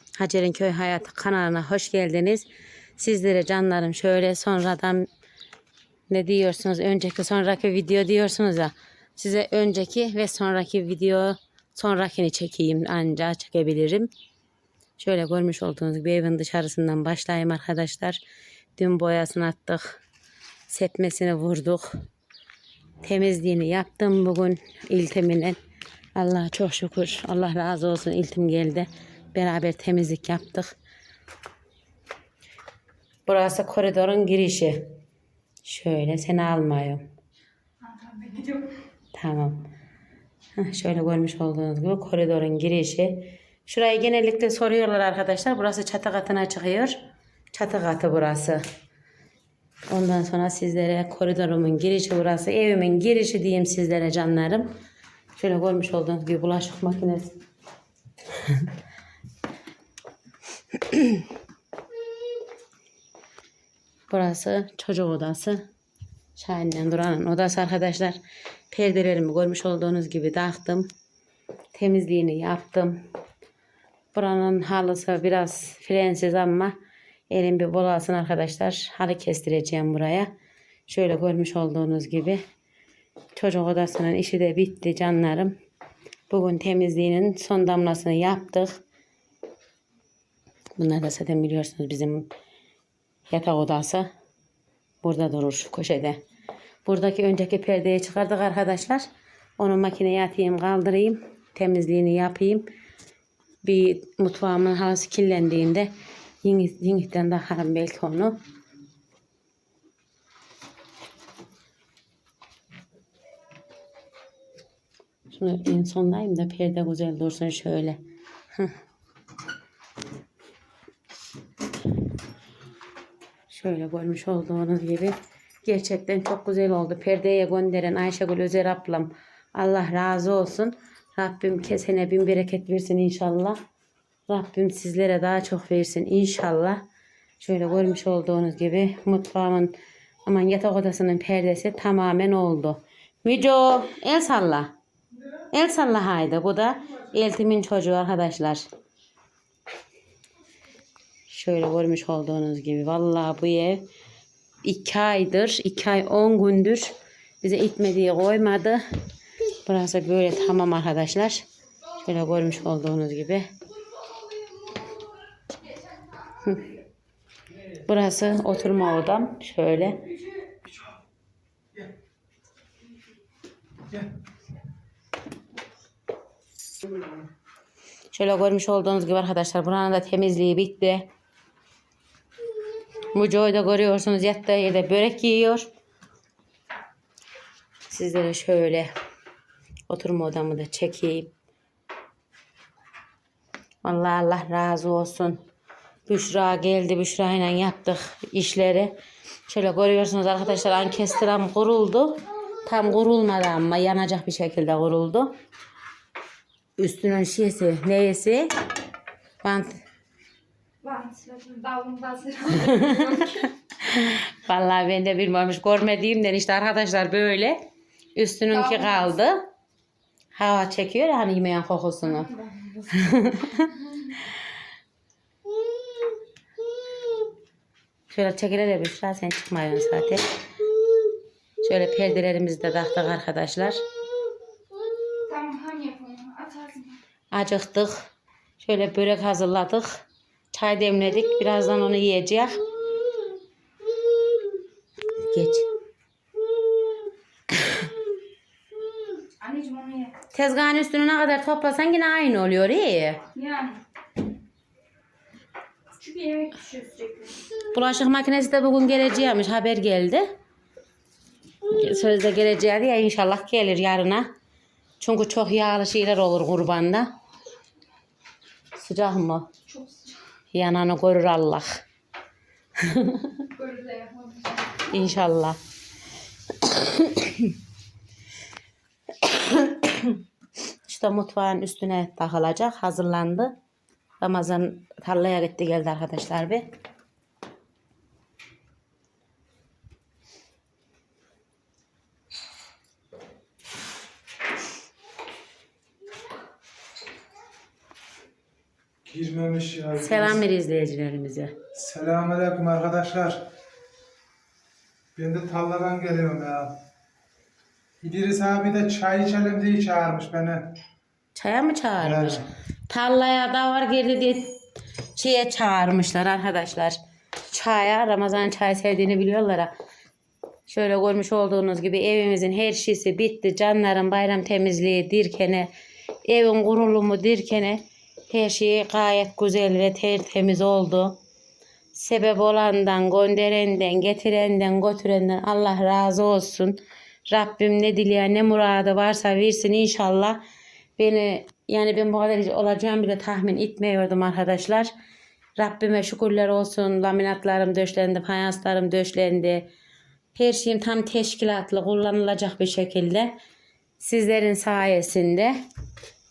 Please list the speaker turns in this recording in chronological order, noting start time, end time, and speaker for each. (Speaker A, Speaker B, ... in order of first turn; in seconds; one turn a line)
Speaker A: 0.2-5.1
Speaker A: 6.1-14.1
Speaker A: 15.0-18.2
Speaker A: 18.8-20.0
Speaker A: 20.7-21.9
Speaker A: 23.0-25.6
Speaker A: 26.2-30.7
Speaker A: 33.3-34.9
Speaker A: 35.6-37.0
Speaker B: 37.9-38.6
Speaker A: 39.1-39.7
Speaker A: 40.6-47.0
Speaker A: 47.5-48.6
Speaker A: 49.9-54.7
Speaker A: 55.4-57.4
Speaker A: 60.9-61.2
Speaker A: 64.1-65.7
Speaker A: 66.4-68.2
Speaker A: 68.7-70.9
Speaker A: 71.7-73.0
Speaker A: 74.1-76.8
Speaker A: 77.3-80.3
Speaker A: 80.9-82.4
Speaker A: 83.3-85.5
Speaker A: 86.3-88.8
Speaker A: 90.8-92.3
Speaker A: 93.3-94.1
Speaker A: 95.0-96.2
Speaker A: 96.8-99.0
Speaker A: 99.6-102.7
Speaker A: 103.6-105.9
Speaker A: 106.4-108.4
Speaker A: 115.3-118.0
Speaker A: 123.5-133.6
Speaker A: 134.3-136.8
Speaker A: 137.4-139.7
Speaker A: 140.2-144.7
Speaker A: 145.5-148.6
Speaker A: 151.3-153.9
Speaker A: 154.6-158.8
Speaker A: 159.7-161.4
Speaker A: 162.0-163.5
Speaker A: 167.8-170.1
Speaker A: 178.1-181.1
Speaker A: 183.1-185.7
Speaker A: 187.9-188.9
Speaker A: 189.9-191.3
Speaker A: 193.8-195.4
Speaker A: 196.1-205.3
Speaker A: 206.8-208.5
Speaker A: 209.4-209.8
Speaker B: 210.8-213.4
Speaker A: 212.5-217.6
Speaker A: 218.2-219.5
Speaker B: 218.7-219.0
Speaker A: 220.3-222.3
Speaker B: 222.2-222.9
Speaker A: 222.9-224.2
Speaker A: 228.1-230.3
Speaker A: 231.6-233.8
Speaker B: 235.3-237.0
Speaker A: 237.3-238.1
Speaker A: 238.6-242.6
Speaker A: 245.2-245.7
Speaker B: 249.4-250.1
Speaker A: 250.3-253.2
Speaker B: 253.3-253.8
Speaker B: 256.0-257.4
Speaker A: 257.7-260.3
Speaker A: 261.6-264.3
Speaker A: 265.0-267.1
Speaker A: 268.7-269.5
Speaker B: 269.7-270.1
Speaker A: 270.5-271.8
Speaker A: 272.8-273.5
Speaker B: 273.5-274.7
Speaker A: 274.8-275.6
Speaker A: 276.5-277.5
Speaker A: 279.2-280.2
Speaker A: 280.9-283.6
Speaker A: 284.2-286.7
Speaker C: 299.1-300.4
Speaker A: 300.0-301.5
Speaker C: 301.8-303.4
Speaker C: 305.2-306.8
Speaker C: 308.0-310.7
Speaker A: 311.4-314.6
Speaker C: 312.0-312.4
Speaker A: 315.1-317.0
Speaker A: 317.5-319.7
Speaker A: 320.7-325.7
Speaker A: 326.3-331.2
Speaker A: 331.9-340.4
Speaker A: 341.0-344.9
Speaker A: 345.6-349.7
Speaker A: 350.4-353.3
Speaker A: 354.0-355.6